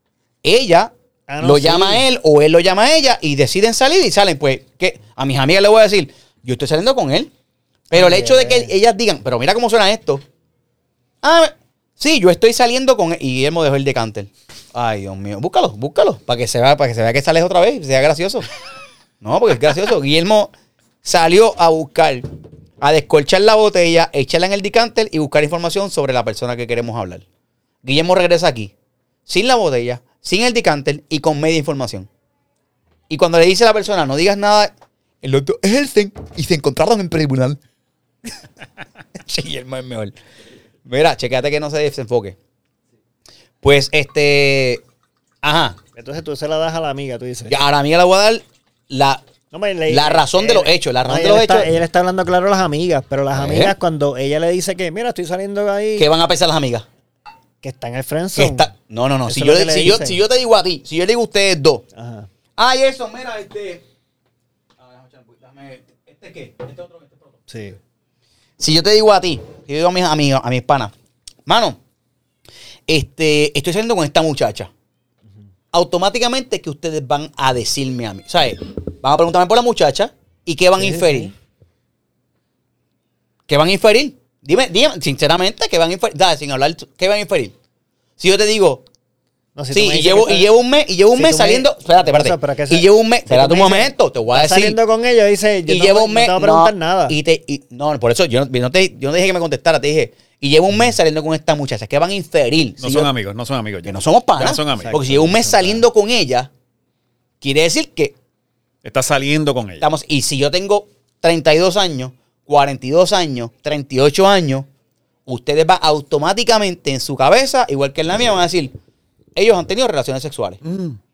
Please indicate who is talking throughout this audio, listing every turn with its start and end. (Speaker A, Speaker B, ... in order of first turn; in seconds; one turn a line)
Speaker A: 0.4-7.3
Speaker B: 1.3-2.0
Speaker A: 7.9-10.2
Speaker B: 7.9-8.7
Speaker A: 11.2-18.5
Speaker A: 19.2-22.3
Speaker A: 22.8-27.2
Speaker A: 27.8-28.7
Speaker A: 29.3-32.1
Speaker A: 33.1-34.7
Speaker A: 35.2-37.6
Speaker A: 39.2-40.1
Speaker A: 40.9-42.4
Speaker A: 43.6-44.8
Speaker A: 45.4-45.8
Speaker B: 46.0-47.5
Speaker A: 47.5-49.2
Speaker B: 49.5-56.1
Speaker A: 49.9-51.7
Speaker A: 53.3-53.8
Speaker A: 56.0-56.9
Speaker B: 57.6-58.7
Speaker A: 58.4-61.8
Speaker B: 59.3-60.2
Speaker B: 62.0-62.3
Speaker A: 62.6-63.8
Speaker A: 64.8-67.3
Speaker B: 67.5-67.8
Speaker A: 68.6-70.9
Speaker A: 71.5-71.8
Speaker A: 72.9-74.7
Speaker A: 75.7-81.3
Speaker B: 80.8-81.3
Speaker A: 83.5-87.5
Speaker A: 88.2-88.8
Speaker B: 89.5-90.5
Speaker A: 89.7-94.8
Speaker B: 91.2-97.2
Speaker A: 95.7-103.1
Speaker C: 102.8-105.0
Speaker A: 103.8-106.5
Speaker B: 104.8-105.8
Speaker A: 107.4-108.2
Speaker C: 108.8-109.8
Speaker A: 109.8-114.7
Speaker A: 115.3-118.7
Speaker A: 119.4-120.6
Speaker C: 120.7-121.0